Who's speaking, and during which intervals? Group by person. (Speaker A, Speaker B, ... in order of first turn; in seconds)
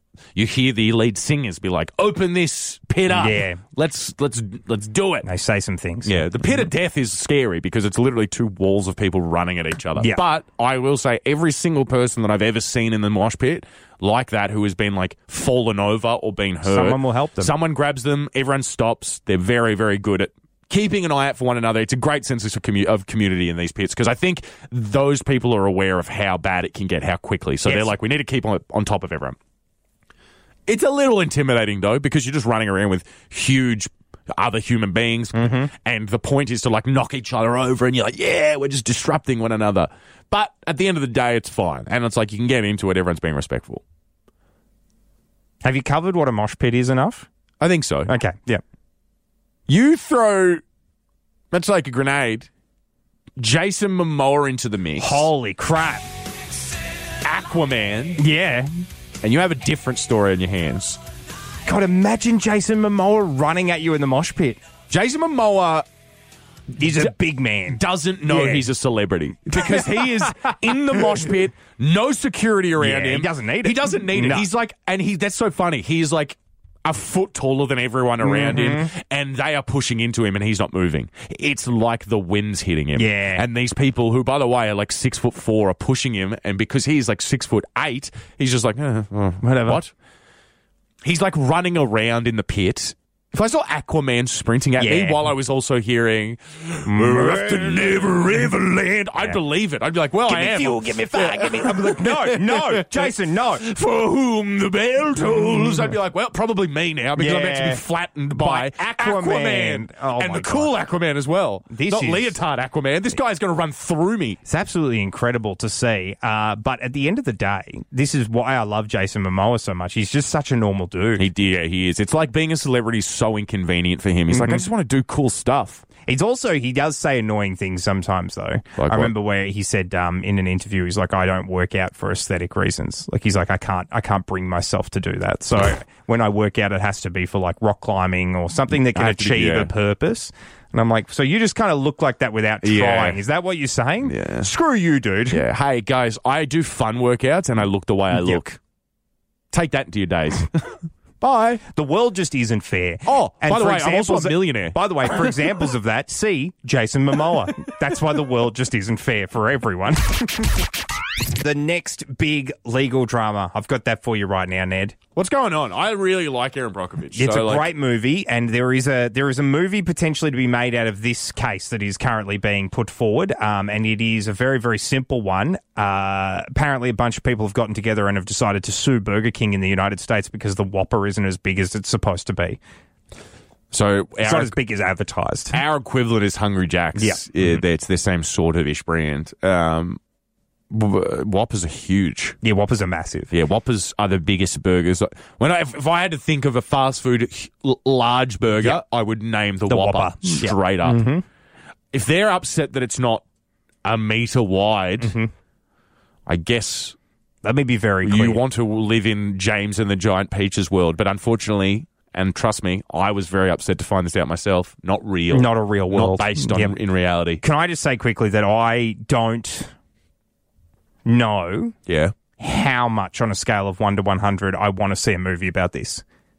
Speaker A: 0.3-5.3, 6.0-29.4, 30.7-43.8, 47.6-48.1, 49.7-50.6, 51.5-52.5, 53.4-55.3, 57.2-58.2, 59.2-61.0, 64.9-65.9, 67.7-89.9, 91.0-114.4, 121.2-125.8, 128.8-129.1, 138.9-139.7, 142.6-143.2, 144.0-144.5, 145.3-148.6, 149.5-151.6, 153.1-155.3, 165.2-167.7, 183.7-184.6, 185.5-190.0, 190.7-192.4, 193.3-201.1, 201.9-203.2, 203.8-205.2, 206.3-207.0, 208.0-217.4, 221.9-222.1
Speaker B: 3.1-3.6, 5.2-6.7, 10.0-10.2, 16.6-17.5, 27.6-27.9, 35.3-35.7, 45.6-47.3, 48.1-48.6, 55.0-56.1, 58.2-58.7, 61.6-64.6, 66.8-68.7, 69.5-71.3, 72.8-74.5, 78.2-78.9, 83.0-83.5, 89.4-89.8, 94.8-95.3, 96.9-98.5, 100.3-103.6, 105.3-106.0, 107.2-110.7, 111.7-112.4, 114.5-121.3, 124.3-124.7, 126.0-145.4, 148.1-148.4, 151.6-160.7, 161.2-165.0, 167.1-182.6, 184.2-185.6, 186.9-187.6, 192.4-193.3, 199.7-201.2, 205.0-205.3, 207.4-208.4, 215.3-216.8, 217.4-219.7, 221.1-221.8, 222.4-226.0